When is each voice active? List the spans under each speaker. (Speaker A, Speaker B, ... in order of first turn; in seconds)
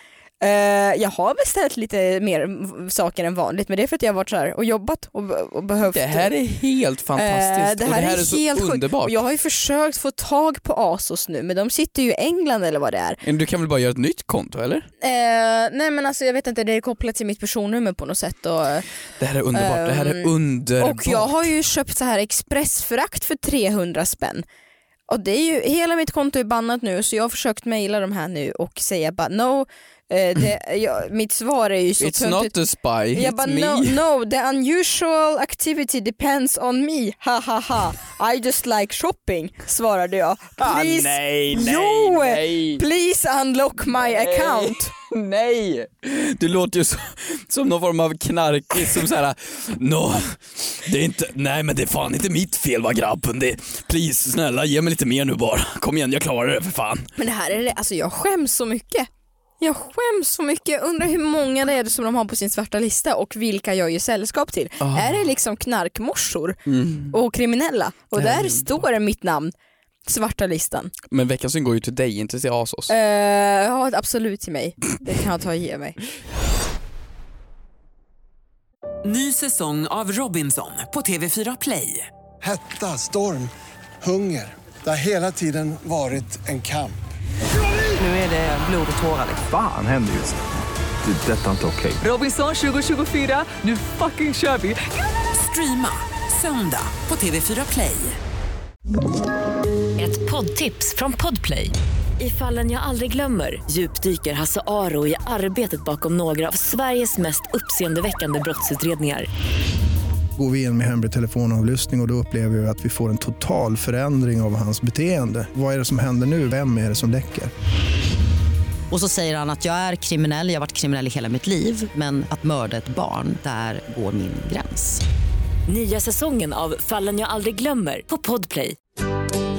Speaker A: 0.4-6.3, 7.2-13.2, 15.0-18.9, 19.5-24.4, 25.1-32.5, 33.1-44.9, 57.2-59.1, 59.6-66.6, 67.1-69.5, 70.1-70.9, 72.9-76.0
Speaker B: 5.8-9.2, 13.2-14.9, 19.2-21.5, 32.0-34.0, 40.6-42.8, 44.0-57.1, 64.8-65.2, 66.7-67.2, 68.2-68.8, 71.1-72.9
Speaker C: 79.0-82.1, 88.0-89.4, 92.0-98.2
Speaker D: 82.4-87.0
Speaker E: 89.4-90.4, 91.0-92.0
Speaker F: 100.0-109.3, 125.7-128.8
Speaker G: 110.4-117.5
Speaker H: 118.9-125.0